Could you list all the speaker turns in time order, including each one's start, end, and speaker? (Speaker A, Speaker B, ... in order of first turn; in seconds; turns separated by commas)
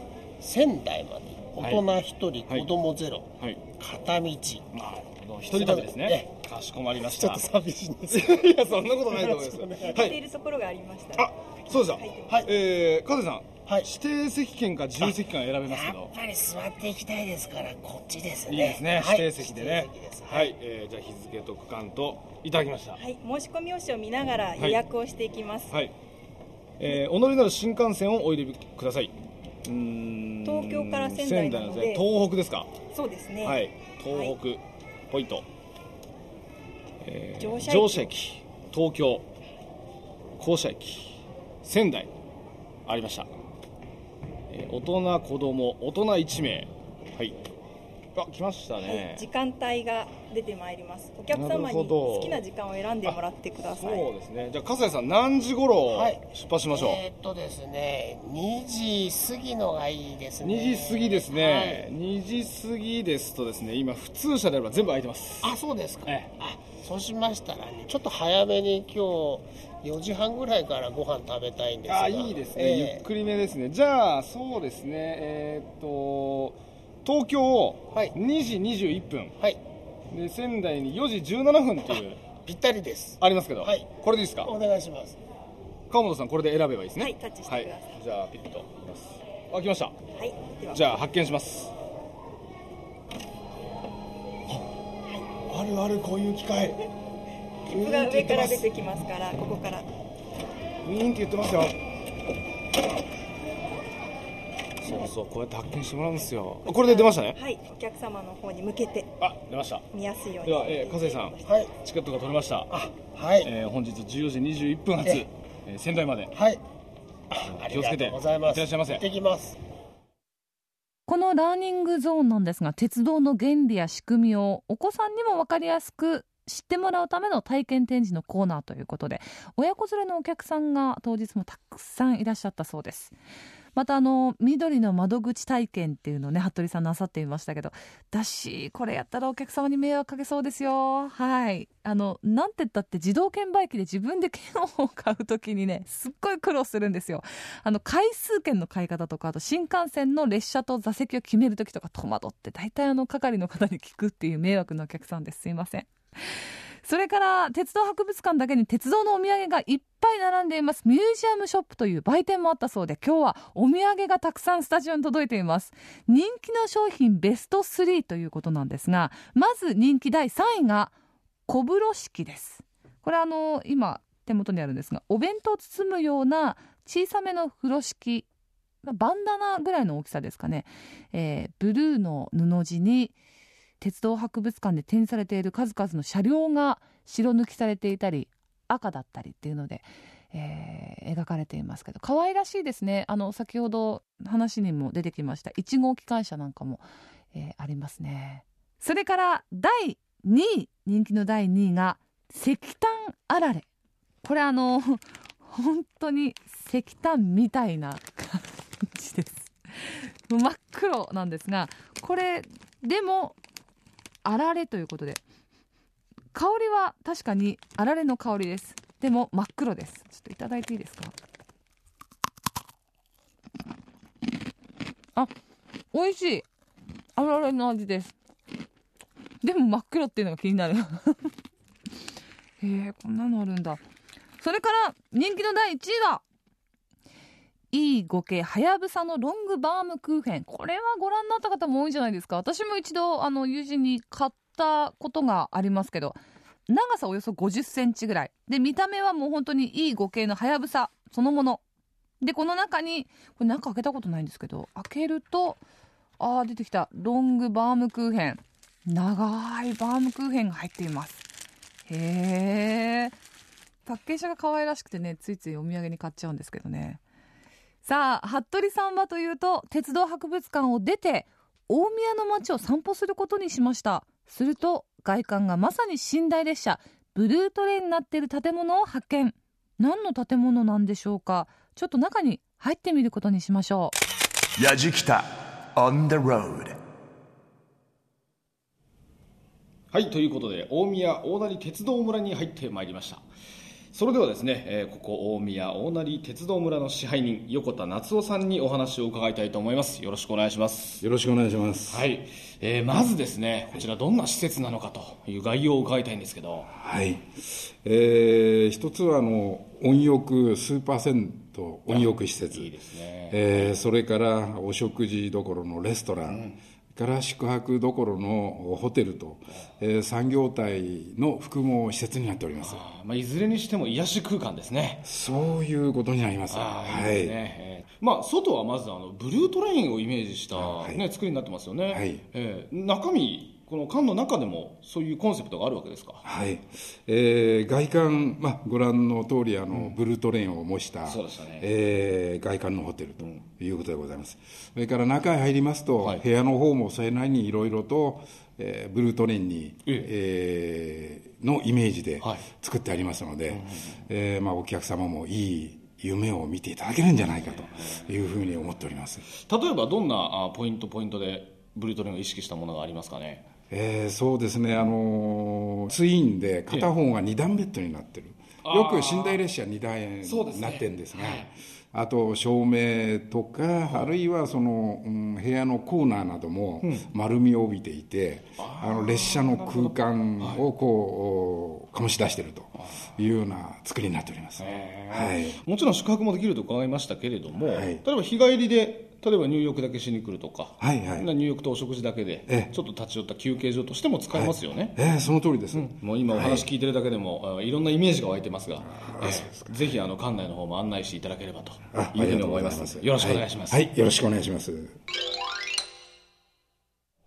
Speaker A: 0.4-4.7, Speaker B: 4.8-7.4, Speaker A: 5.5-6.3, Speaker A: 7.0-10.0, Speaker B: 8.1-10.2, Speaker C: 9.9-12.4, Speaker B: 11.2-16.1, Speaker A: 15.0-20.5, Speaker B: 18.5-23.0, Speaker C: 23.0-25.7, Speaker B: 26.8-29.1, Speaker B: 29.6-32.7, Speaker C: 30.4-32.0, Speaker C: 32.9-34.4, Speaker B: 33.4-35.5, Speaker B: 37.0-39.3, Speaker C: 37.4-38.1, Speaker B: 40.4-42.1, Speaker B: 42.9-43.3, Speaker B: 44.5-47.4, Speaker B: 48.2-49.2, Speaker C: 48.8-54.1, Speaker B: 51.3-52.5, Speaker B: 53.0-57.0, Speaker A: 55.9-61.9, Speaker B: 60.4-65.5, Speaker A: 65.4-73.0, Speaker B: 66.1-66.3, Speaker B: 71.9-79.3, Speaker B: 80.1-82.2, Speaker A: 82.0-83.9, Speaker B: 83.2-84.5, Speaker A: 84.4-85.2, Speaker B: 85.9-90.0, Speaker C: 87.0-88.0, Speaker C: 90.2-90.9, Speaker B: 90.7-91.7, Speaker B: 95.4-96.9, Speaker B: 97.7-98.7, Speaker C: 97.7-99.9, Speaker B: 100.8-101.7, Speaker B: 104.8-107.4, Speaker C: 106.7-109.1, Speaker B: 109.2-109.9, Speaker C: 109.9-111.5, Speaker B: 110.4-112.7, Speaker A: 111.5-111.7, Speaker A: 112.7-113.5, Speaker B: 113.4-116.3, Speaker A: 116.3-116.6, Speaker A: 117.3-119.5, Speaker B: 117.5-119.0, Speaker D: 121.1-133.1, Speaker D: 133.8-170.9, Speaker D: 171.5-178.3, Speaker D: 178.8-183.1, Speaker D: 183.8-203.7, Speaker D: 204.2-213.4, Speaker D: 214.2-215.2, Speaker D: 216.3-221.1, Speaker D: 225.9-226.5, Speaker D: 227.2-228.2, Speaker D: 229.4-231.3, Speaker D: 232.6-233.8, Speaker D: 234.4-236.2, Speaker D: 237.7-251.6, Speaker D: 252.2-255.6, Speaker D: 256.2-261.3, Speaker D: 261.9-263.1, Speaker D: 263.9-267.0, Speaker D: 267.8-283.9, Speaker E: 284.6-286.8, Speaker B: 289.9-293.2, Speaker B: 293.9-301.1, Speaker F: 301.0-302.1, Speaker B: 301.9-306.7, Speaker F: 306.7-312.7, Speaker B: 311.9-313.8, Speaker F: 313.3-322.8, Speaker B: 316.2-316.6, Speaker B: 322.6-325.0, Speaker F: 325.1-327.4, Speaker B: 326.5-336.2, Speaker F: 330.5-331.0, Speaker F: 331.9-332.2, Speaker F: 336.2-359.2, Speaker B: 339.7-340.0, Speaker B: 341.1-341.7, Speaker B: 353.5-354.0, Speaker B: 357.4-358.0, Speaker B: 359.4-363.5, Speaker F: 363.7-385.6, Speaker B: 368.6-369.4, Speaker B: 370.2-371.5, Speaker B: 373.9-374.1, Speaker B: 376.8-377.1, Speaker B: 378.6-380.7, Speaker B: 384.6-395.0, Speaker F: 387.5-388.0, Speaker F: 390.8-391.3, Speaker F: 392.5-392.7, Speaker F: 394.3-396.7, Speaker B: 395.7-403.9, Speaker F: 398.9-399.9, Speaker F: 401.9-405.0